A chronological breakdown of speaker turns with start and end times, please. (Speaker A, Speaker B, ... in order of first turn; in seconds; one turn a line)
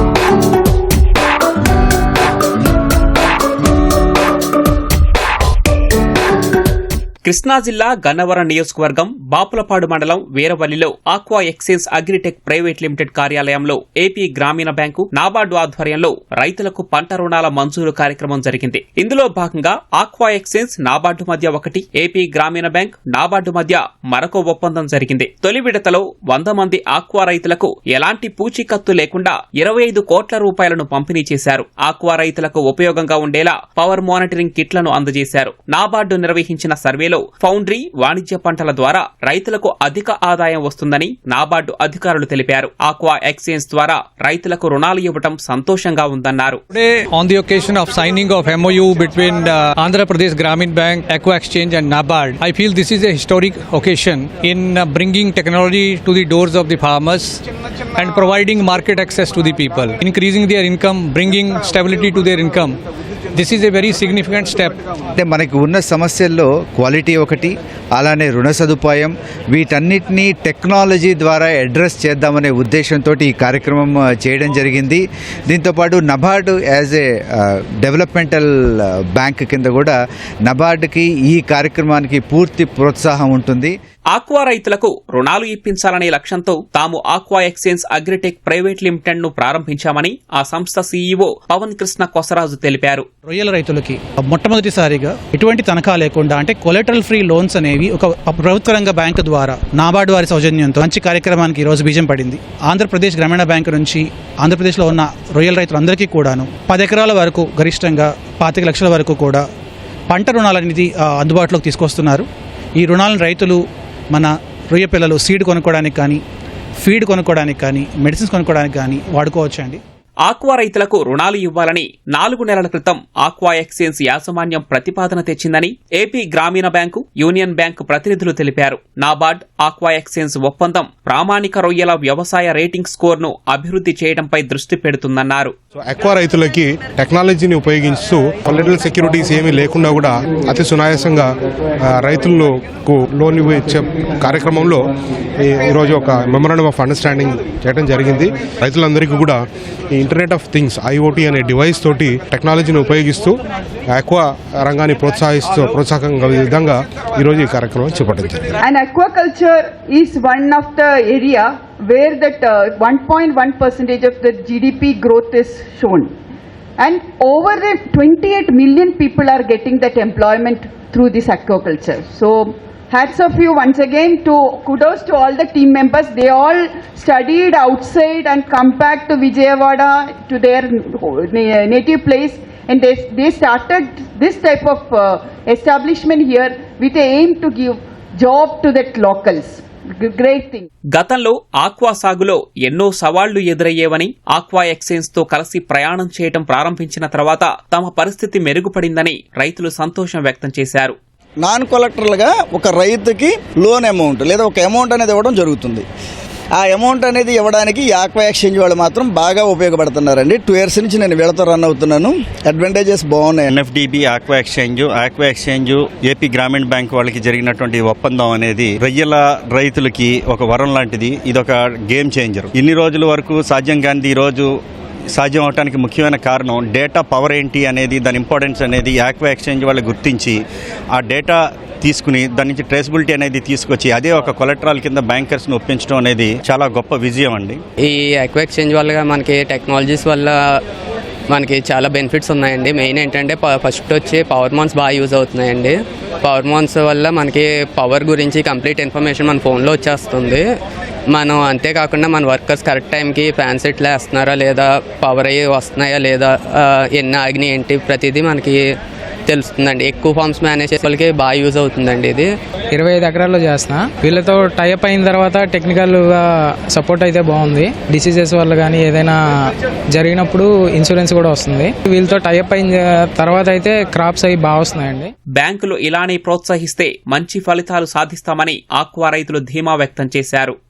Speaker A: 7.2-46.6
Speaker B: 46.7-57.4
Speaker B: 58.0-62.8
Speaker B: 63.3-64.8
Speaker C: 65.2-78.5
Speaker C: 79.2-80.0
Speaker C: 80.5-83.8
Speaker A: 84.1-93.1
Speaker D: 93.3-109.5
Speaker D: 110.1-112.3
Speaker D: 112.8-116.2
Speaker D: 116.8-119.8
Speaker A: 120.2-135.5
Speaker E: 135.8-141.3
Speaker E: 141.8-149.4
Speaker E: 149.9-153.4
Speaker E: 153.9-158.4
Speaker F: 158.6-166.1
Speaker F: 166.8-190.7
Speaker A: 190.9-201.0
Speaker G: 201.4-205.9
Speaker G: 206.6-213.5
Speaker H: 213.5-224.5
Speaker H: 225.1-230.4
Speaker H: 230.9-237.6
Speaker I: 237.8-240.6
Speaker I: 241.3-250.4
Speaker I: 251.1-258.8
Speaker I: 259.3-262.3
Speaker J: 262.7-269.2
Speaker J: 269.9-275.1
Speaker A: 275.4-280.6